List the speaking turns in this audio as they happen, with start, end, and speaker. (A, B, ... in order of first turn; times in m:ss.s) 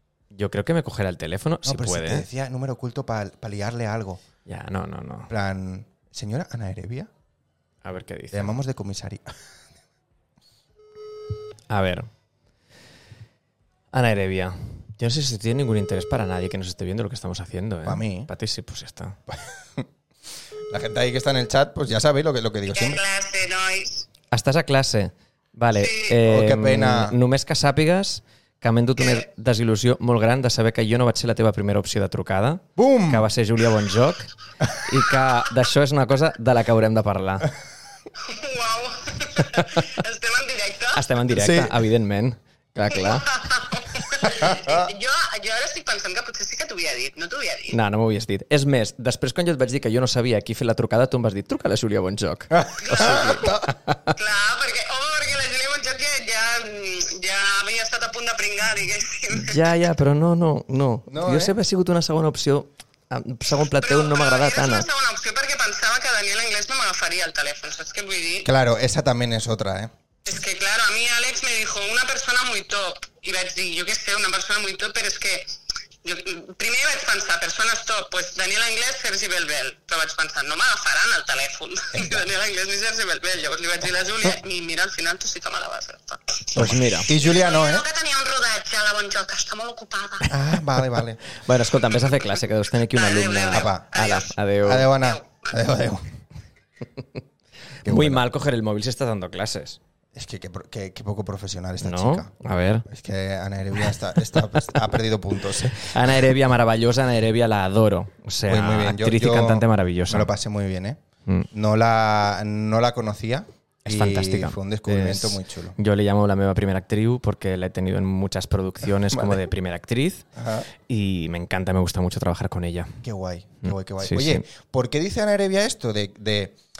0:00.3-0:02.3 A
0:01.6-0:04.2 B
0:04.4-0:05.3 A
0:05.3-0:07.1 B
0:07.8-0:08.5 A
0:08.3-0:09.4 B
0:11.7-0:12.1 A
0:13.9-0:19.2 A
0:17.8-0:18.3 B
0:19.3-0:19.8 B
0:20.7-0:23.0 B
0:22.7-0:24.1 C
0:24.3-0:37.5 A
0:25.8-0:26.2 C
0:26.2-0:27.2 B
0:32.8-0:33.2 B
0:38.2-0:41.0 C
0:40.9-0:43.3 A
0:41.3-0:41.7 B
0:42.9-0:47.8 C
0:44.2-0:44.9 B
0:47.7-0:54.2 A
0:52.5-0:53.7 B
0:52.8-0:53.6 C
0:54.2-0:59.6 C
0:59.3-1:04.9 A
1:01.1-1:01.5 B
1:03.7-1:08.5 C
1:08.4-1:09.9 B
1:10.2-1:15.5 C
1:16.0-1:30.3 C
1:21.9-1:22.3 B
1:26.5-1:27.1 A
1:26.5-1:27.8 B
1:30.3-1:31.2 B
1:31.3-1:34.9 A
1:32.9-1:34.3 C
1:33.5-1:36.0 B
1:34.9-1:35.3 C
1:37.8-1:38.2 B
1:37.8-1:39.8 A
1:40.1-1:42.3 B
1:41.8-1:42.8 A
1:42.8-1:46.3 B
1:44.3-1:44.7 A
1:45.7-1:50.3 A
1:48.4-1:51.0 B
1:51.5-1:55.8 B
1:53.8-2:00.2 A
1:59.1-1:59.4 B
2:00.4-2:00.7 B
2:00.8-2:03.0 A
2:03.0-2:06.6 B
2:03.6-2:04.4 A